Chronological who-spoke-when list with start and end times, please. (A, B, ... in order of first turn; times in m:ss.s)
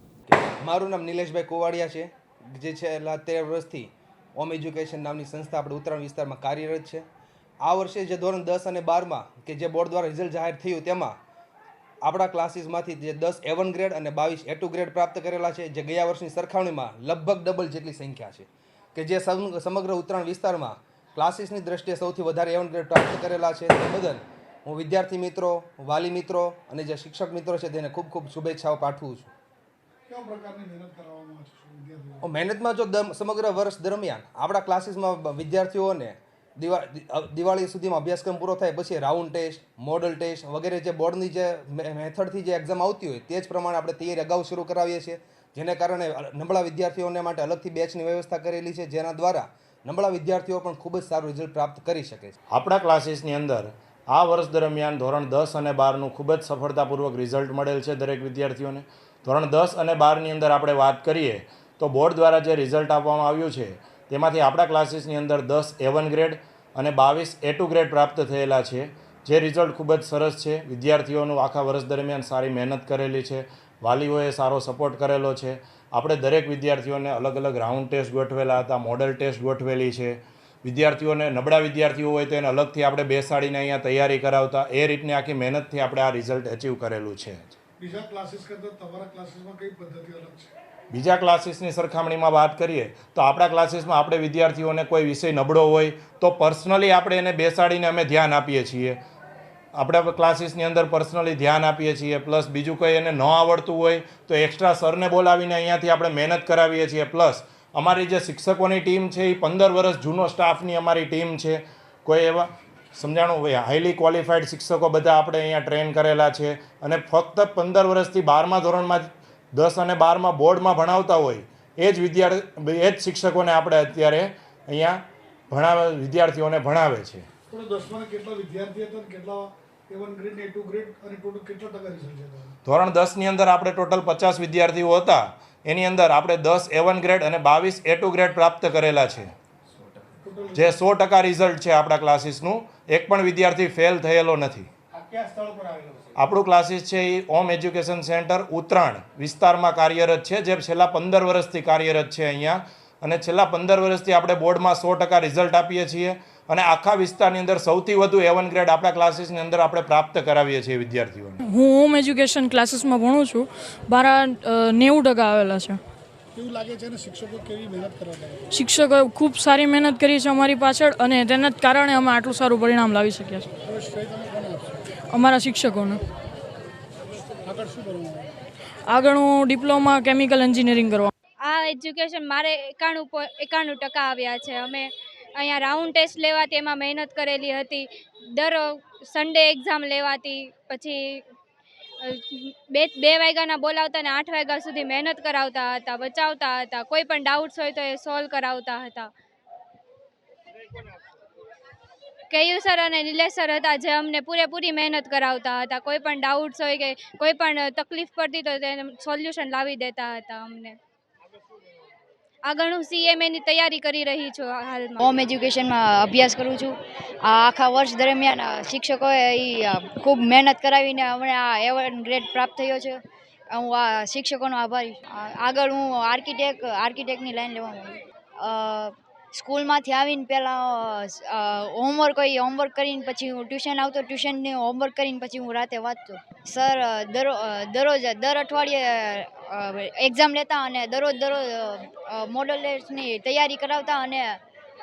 0:00.3-0:07.0 A
0:07.6-0:11.2 A
0:12.0-0:29.3 A
0:30.1-0:32.3 B
0:32.2-0:52.4 A
0:52.5-1:27.6 C
1:27.8-1:30.5 B
1:30.9-1:39.0 C
1:39.8-2:05.0 C
2:05.5-2:07.3 C
2:07.5-2:12.5 B
2:12.6-2:19.3 C
2:20.2-2:20.8 B
2:20.5-2:24.7 C
2:25.0-2:26.0 B
2:26.2-2:41.4 C
2:41.4-2:45.8 D
2:46.4-2:48.2 B
2:48.5-2:53.5 D
2:53.7-2:54.8 B
2:54.9-2:56.0 D
2:57.5-2:58.3 B
2:58.9-3:01.1 D
3:01.4-3:11.2 E
3:12.0-3:19.1 E
3:22.3-3:30.8 E
3:32.4-3:35.0 E
3:35.0-4:04.4 F